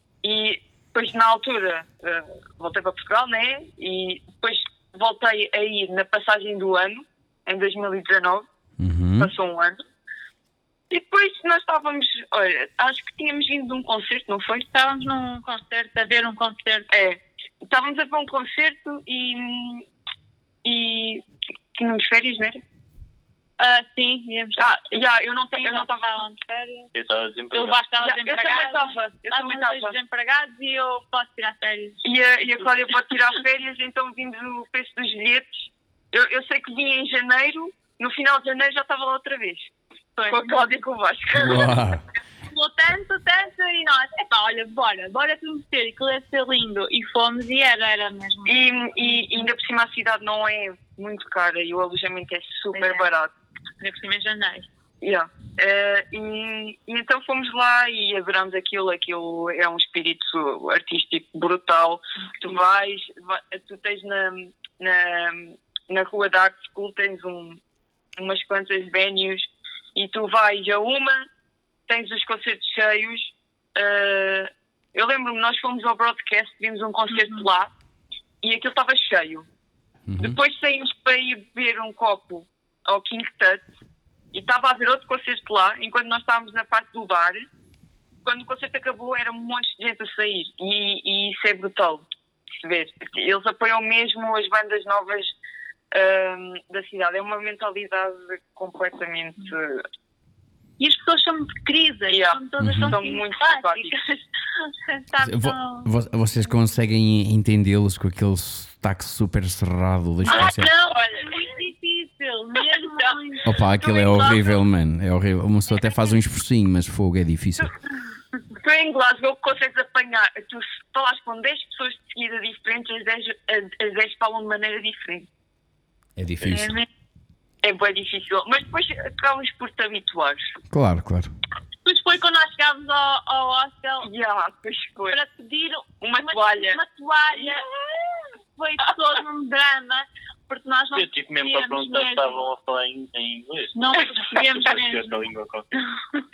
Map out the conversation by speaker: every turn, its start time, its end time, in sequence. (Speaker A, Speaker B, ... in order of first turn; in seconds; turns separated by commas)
Speaker A: 0.2-8.5, Speaker B: 8.8-9.3, Speaker A: 9.2-9.8, Speaker A: 10.9-14.7, Speaker C: 14.7-16.9, Speaker A: 16.9-19.9, Speaker A: 20.6-21.2, Speaker A: 21.8-22.6, Speaker C: 23.6-24.8, Speaker A: 24.6-26.2, Speaker C: 25.6-26.9, Speaker D: 26.9-27.8, Speaker C: 27.5-32.0, Speaker A: 28.0-29.9, Speaker A: 32.0-39.7, Speaker C: 40.2-40.6, Speaker A: 40.3-41.7, Speaker B: 41.4-42.0, Speaker C: 42.5-48.7, Speaker A: 48.5-53.3, Speaker C: 52.7-53.1, Speaker C: 53.8-54.7, Speaker A: 55.0-67.6, Speaker A: 68.2-71.3, Speaker A: 71.9-77.7, Speaker C: 77.1-77.4, Speaker A: 78.4-79.5, Speaker B: 80.1-80.4, Speaker A: 80.2-83.6, Speaker A: 84.3-87.5, Speaker A: 88.2-92.0, Speaker A: 92.6-95.3, Speaker A: 95.9-99.8, Speaker C: 100.8-105.9, Speaker A: 102.1-103.9, Speaker B: 102.6-103.0, Speaker B: 105.2-110.7, Speaker C: 110.3-114.5, Speaker A: 110.4-111.2, Speaker B: 113.5-117.7, Speaker A: 118.5-125.3, Speaker B: 126.2-126.8, Speaker C: 126.5-126.9, Speaker A: 127.6-130.4, Speaker B: 130.7-131.3, Speaker C: 131.8-134.1, Speaker A: 134.0-135.2, Speaker C: 135.1-137.6, Speaker A: 136.0-136.8, Speaker C: 138.6-142.3, Speaker D: 140.9-143.8, Speaker C: 143.8-145.1, Speaker D: 144.6-145.7